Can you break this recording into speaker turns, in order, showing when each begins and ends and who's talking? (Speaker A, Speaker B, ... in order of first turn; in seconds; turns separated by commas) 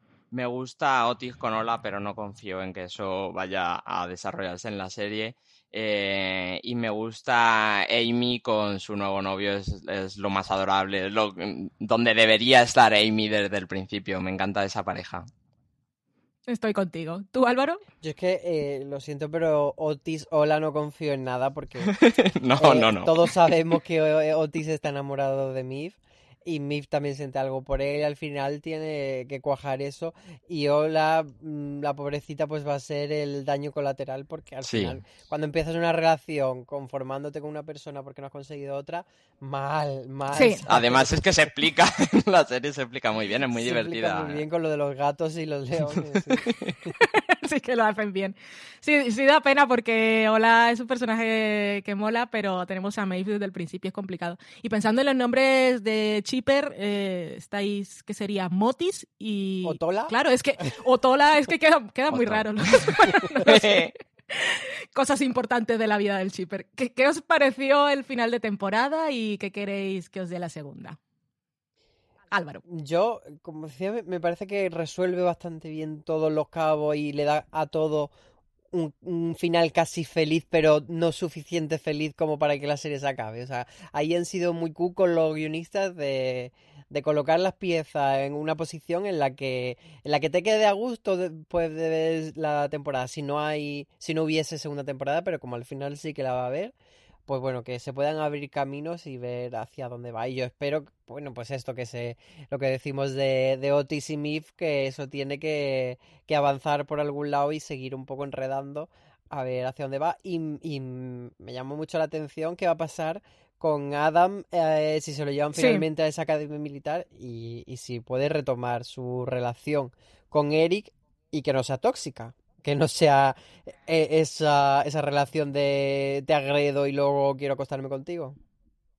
Speaker A: 0.3-15.3, Speaker B: 16.5-17.8, Speaker C: 18.0-21.9, Speaker A: 21.9-23.3, Speaker C: 22.6-41.5, Speaker A: 34.6-35.0, Speaker B: 40.3-40.6, Speaker A: 40.7-44.4, Speaker C: 43.5-46.9, Speaker B: 47.0-71.0, Speaker C: 59.6-60.1, Speaker A: 62.1-63.9, Speaker B: 72.3-72.6, Speaker C: 72.7-78.1, Speaker C: 78.7-96.7, Speaker C: 97.3-128.4, Speaker B: 115.6-115.8